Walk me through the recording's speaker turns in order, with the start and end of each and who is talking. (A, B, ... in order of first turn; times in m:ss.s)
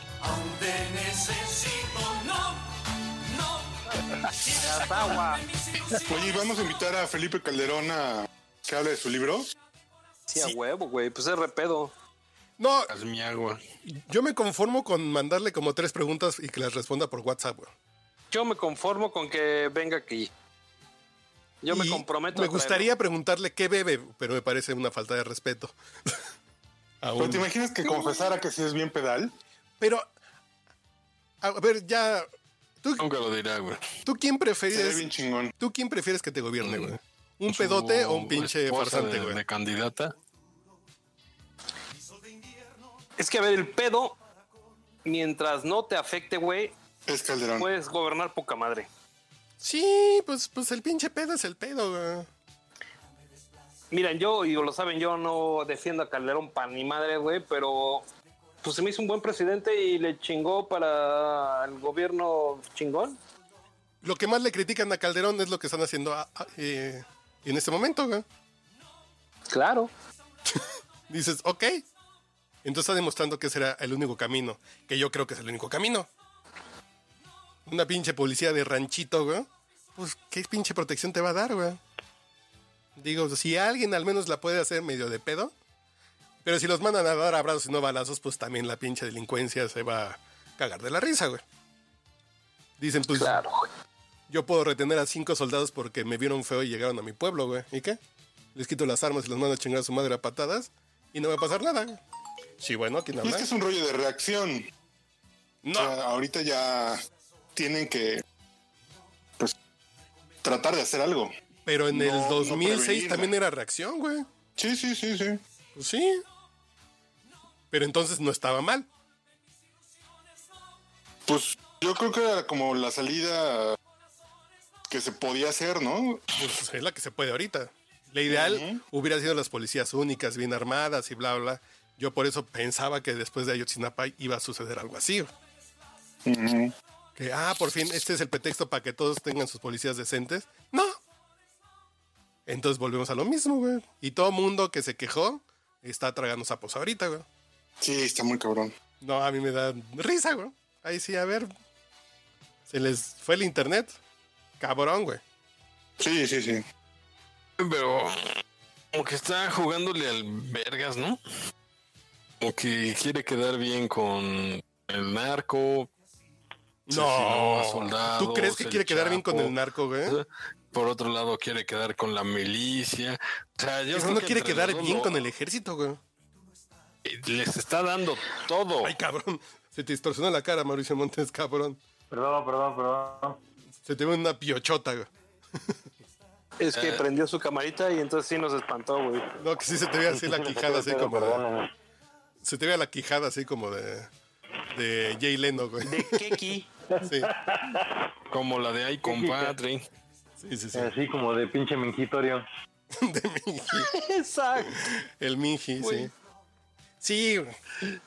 0:00.2-0:03.8 A
0:04.4-0:05.4 B
0:04.4-0:06.3 A
0:06.0-0:09.5 C
0:10.3-0:11.9 B
0:12.6-0:12.9 D
0:12.9-0:13.6 E
0:13.8-0:17.7 D
0:18.3-0:20.3 B
0:21.6-0:22.9 B
0:21.7-0:26.2 D
0:27.0-0:27.5 D
0:27.2-0:29.3 C
0:29.8-0:30.1 D
0:31.4-0:32.3 D
0:33.0-0:34.0 E
0:34.0-0:35.1 D
0:34.7-0:35.5 C
0:35.6-0:39.4 D
0:36.6-0:36.9 E
0:37.5-0:40.1 E
0:42.4-0:42.6 A
0:43.2-0:44.2 B
0:45.0-0:46.7 B
0:47.1-0:47.7 C
0:47.6-0:48.9 B
0:49.6-0:52.3 D
0:53.9-0:58.0 B
0:58.6-1:03.2 B
1:04.0-1:08.2 D
1:09.5-1:09.9 B
1:10.5-1:11.8 D
1:12.6-1:16.1 D
1:17.6-1:21.8 D
1:23.0-1:25.5 D
1:26.4-1:31.4 D
1:32.8-1:33.4 D
1:33.1-1:33.7 B
1:34.3-1:38.0 D
1:38.5-1:42.0 D
1:42.6-1:43.5 D
1:43.2-1:44.7 C
1:45.6-1:46.0 D
1:45.7-1:47.0 C
1:47.6-1:48.2 C
1:50.4-1:51.3 C
1:51.6-1:54.3 D
1:51.9-1:53.3 C
1:54.6-1:55.4 C
1:55.7-1:56.2 D
1:57.7-1:58.9 D
2:01.3-2:03.8 C
2:04.9-2:06.3 C
2:06.4-2:15.3 D
2:08.3-2:08.8 C
2:16.2-2:16.7 C
2:17.2-2:21.0 D
2:22.4-2:27.2 D
2:27.8-2:28.7 C
2:29.0-2:31.5 D
2:32.7-2:34.0 D
2:34.6-2:35.2 D
2:36.0-2:36.6 C
2:37.6-2:38.4 E
2:38.9-2:41.2 E
2:42.4-2:45.9 E
2:46.9-2:50.2 D
2:46.9-2:49.5 E
2:50.1-2:55.2 E
2:53.9-2:56.0 D
2:57.0-2:58.5 E
2:57.5-2:58.9 B
2:58.8-3:01.8 D
3:02.1-3:03.4 F
3:03.8-3:05.8 D
3:06.6-3:09.3 B
3:06.7-3:07.0 E
3:09.4-3:11.4 D
3:10.1-3:11.7 F
3:12.4-3:14.1 D
3:14.7-3:16.4 D
3:15.8-3:16.7 B
3:16.9-3:18.0 F
3:17.0-3:17.3 D
3:18.3-3:19.9 E
3:19.1-3:19.5 F
3:20.4-3:21.0 D
3:20.7-3:22.4 F
3:22.9-3:23.9 D
3:23.8-3:24.9 B
3:24.6-3:26.1 D
3:25.8-3:26.1 B
3:27.0-3:27.6 D